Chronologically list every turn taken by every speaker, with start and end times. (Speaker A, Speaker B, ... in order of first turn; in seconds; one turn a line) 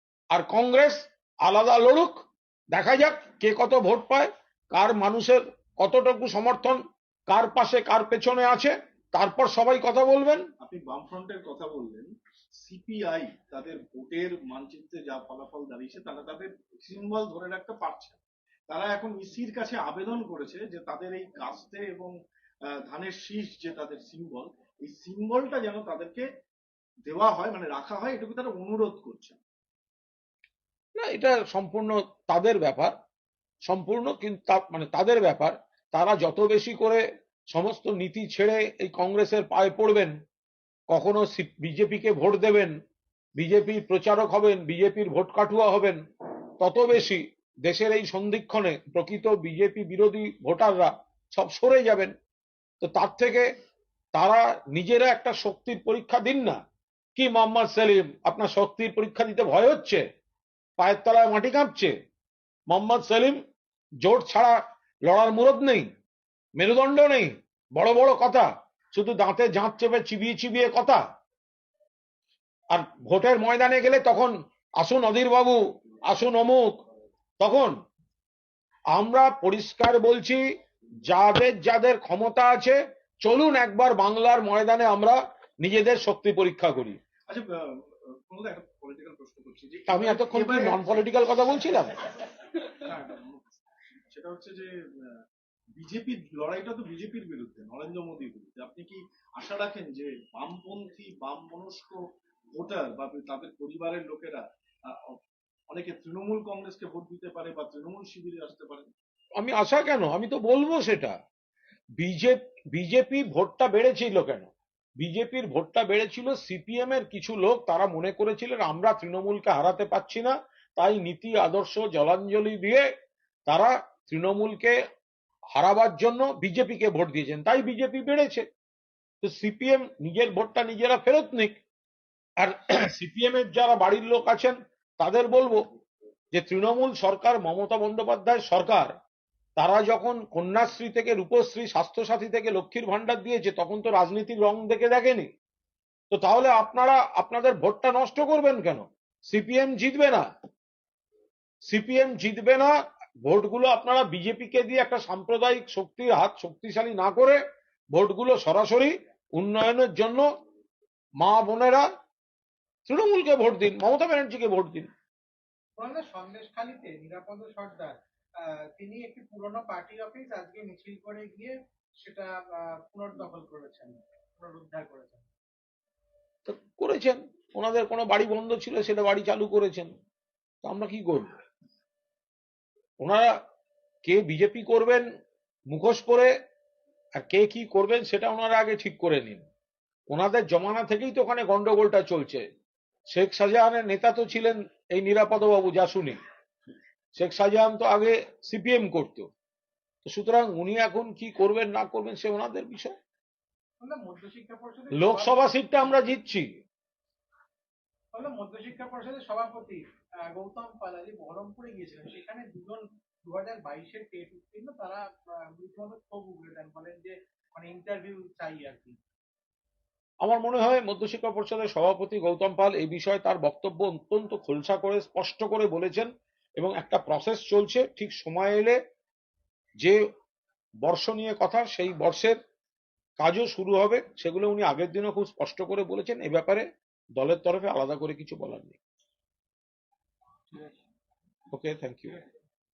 Speaker A: 0.3-10.5
Speaker B: 10.6-18.2
Speaker B: 18.7-22.1
Speaker B: 22.7-26.3
Speaker B: 27.1-29.4
Speaker A: 31.0-33.0
Speaker A: 33.7-40.1
Speaker A: 40.9-42.8
Speaker A: 43.4-46.0
Speaker A: 46.6-52.1
Speaker A: 52.8-53.5
Speaker A: 54.1-56.6
Speaker A: 57.2-60.0
Speaker A: 60.8-62.0
Speaker A: 62.7-63.4
Speaker A: 64.0-65.9
Speaker A: 66.6-71.0
Speaker A: 72.7-76.8
Speaker A: 77.4-77.8
Speaker A: 78.9-80.4
Speaker A: 81.0-87.0
Speaker B: 87.3-90.8
Speaker A: 89.9-92.1
Speaker B: 92.5-95.2
Speaker B: 95.8-102.0
Speaker B: 102.5-105.2
Speaker B: 105.7-108.9
Speaker A: 109.4-111.2
Speaker A: 112.0-122.9
Speaker A: 123.5-124.8
Speaker A: 125.5-128.5
Speaker A: 129.2-131.6
Speaker A: 132.4-135.6
Speaker A: 136.3-139.0
Speaker A: 139.6-145.3
Speaker A: 146.1-150.3
Speaker A: 151.7-152.7
Speaker A: 153.2-157.4
Speaker A: 157.9-160.3
Speaker A: 161.2-161.9
Speaker A: 162.9-164.9
Speaker C: 165.8-175.3
Speaker A: 176.5-179.9
Speaker A: 180.6-181.3
Speaker A: 183.0-183.4
Speaker A: 184.1-185.1
Speaker A: 185.7-186.3
Speaker A: 187.2-189.5
Speaker A: 190.1-192.5
Speaker A: 193.1-196.2
Speaker A: 197.2-199.3
Speaker A: 200.1-202.9
Speaker C: 203.8-205.5
Speaker A: 204.9-206.5
Speaker C: 208.1-219.0
Speaker A: 220.2-228.8
Speaker A: 230.8-232.4
Speaker A: 233.2-238.8
Speaker A: 241.5-242.2